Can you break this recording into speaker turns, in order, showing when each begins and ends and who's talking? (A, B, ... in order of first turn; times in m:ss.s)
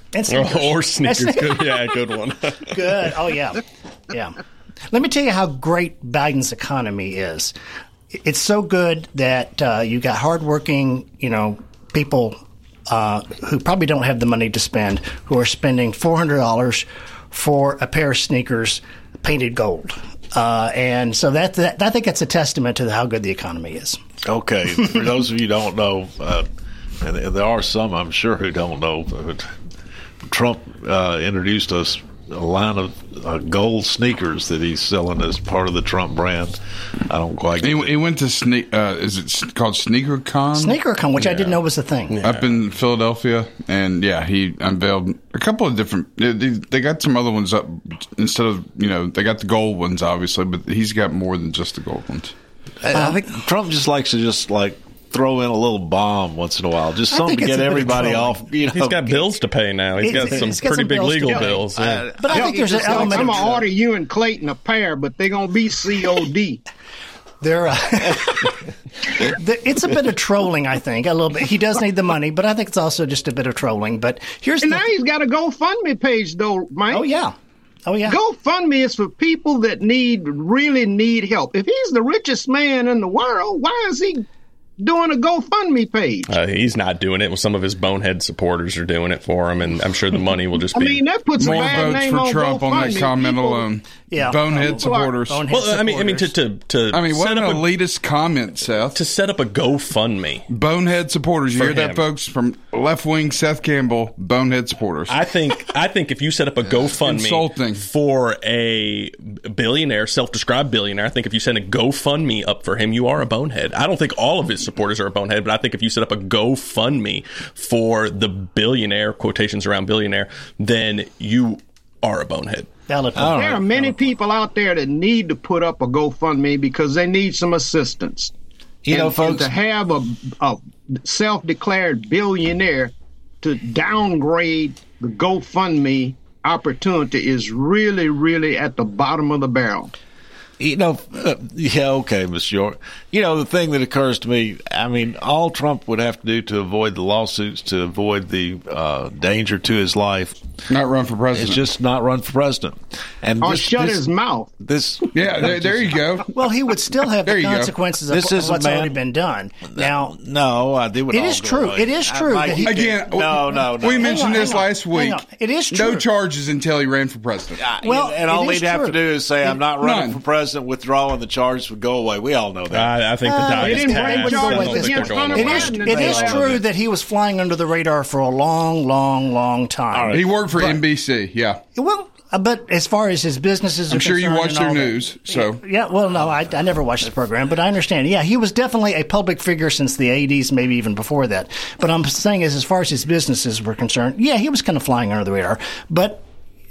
0:00.1-0:01.9 A
0:00.3-0:02.6 B
0:02.7-0:04.4 A
0:04.9-0:07.5 A
0:08.1-0:12.4 A
0:12.9-0:24.0 A
0:24.2-0:26.4 C
0:27.0-0:29.5 C
0:30.3-0:36.6 C
0:37.1-0:37.9 C
0:37.6-0:40.8 D
0:40.5-0:42.2 A
0:41.2-0:42.6 B
0:42.2-0:52.3 D
0:52.8-0:59.2 C
0:52.9-0:53.2 A
0:57.1-0:58.4 A
0:58.7-1:02.1 B
1:00.0-1:01.6 A
1:01.4-1:03.6 C
1:02.2-1:03.5 A
1:02.3-1:06.6 E
1:07.4-1:08.6 A
1:09.3-1:14.9 A
1:14.6-1:17.0 E
1:16.9-1:18.2 A
1:18.0-1:24.2 E
1:24.8-1:26.3 E
1:26.3-1:31.9 B
1:30.7-1:33.7 E
1:31.4-1:35.4 D
1:34.1-1:36.3 A
1:34.6-1:35.1 E
1:35.5-1:37.6 B
1:36.9-1:39.0 D
1:38.9-1:40.5 B
1:40.5-1:45.2 D
1:41.5-1:42.0 B
1:45.1-2:02.7 B
1:46.8-1:47.8 D
2:02.9-2:03.9 A
2:03.2-2:03.6 C
2:03.3-2:08.3 E
2:08.8-2:09.5 C
2:08.9-2:19.9 E
2:20.6-2:30.4 C
2:30.7-2:31.6 D
2:31.3-2:34.1 C
2:33.4-2:34.5 E
2:34.6-2:36.0 C
2:35.1-2:36.3 D
2:36.3-2:40.2 A
2:37.2-2:37.7 D
2:38.1-2:38.9 C
2:39.7-2:44.6 C
2:41.1-2:42.9 A
2:42.6-2:47.6 D
2:43.5-2:46.0 A
2:47.6-2:53.0 C
2:47.8-2:49.6 A
2:49.8-2:50.2 D
2:52.7-2:55.9 B
2:53.2-3:00.8 A
2:53.6-2:56.6 E
2:55.5-2:56.6 C
2:59.9-3:00.3 C
3:00.1-3:01.6 D
3:01.7-3:16.2 A
3:03.9-3:05.6 D